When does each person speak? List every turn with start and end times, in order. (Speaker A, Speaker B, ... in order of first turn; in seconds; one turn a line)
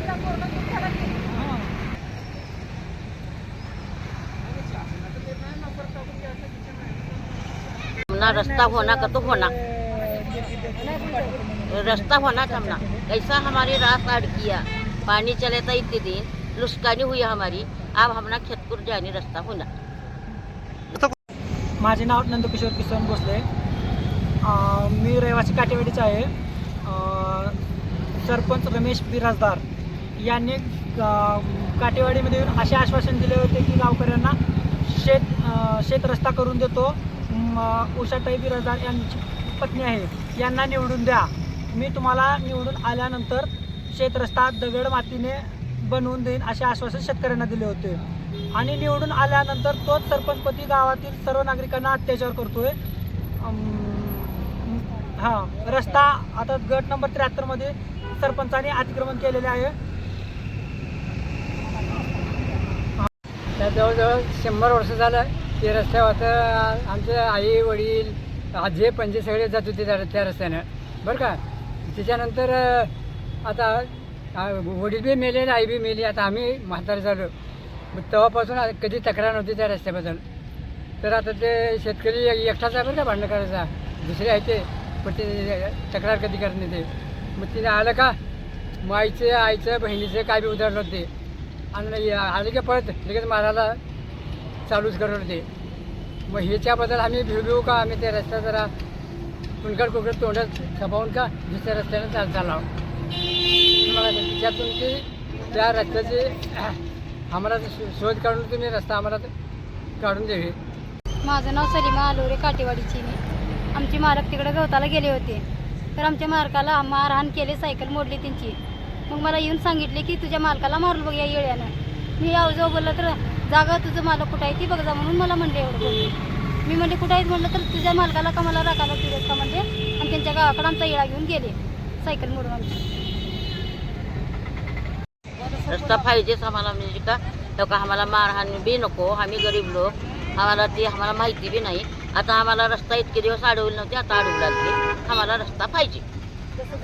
Speaker A: 0.5-0.8
Speaker B: 1.3-1.7
Speaker C: 8.1-9.5
Speaker B: 9.7-11.4
Speaker C: 11.7-19.7
Speaker B: 21.8-23.5
Speaker B: 24.4-26.3
Speaker B: 26.8-27.6
Speaker B: 28.2-29.6
Speaker B: 30.2-48.0
Speaker B: 48.5-52.8
Speaker B: 53.4-59.8
Speaker D: 63.6-71.4
Speaker D: 71.9-72.9
Speaker D: 73.4-77.3
Speaker D: 77.9-80.2
Speaker D: 81.0-88.1
Speaker D: 88.8-91.1
Speaker D: 91.7-93.8
Speaker D: 94.7-95.4
Speaker D: 96.3-98.7
Speaker D: 99.6-102.6
Speaker D: 103.8-105.0
Speaker D: 105.6-106.4
Speaker D: 107.3-109.3
Speaker D: 110.0-110.5
Speaker A: 111.2-113.2
Speaker A: 113.7-115.4
Speaker A: 116.0-118.5
Speaker A: 119.1-132.8
Speaker C: 135.6-146.0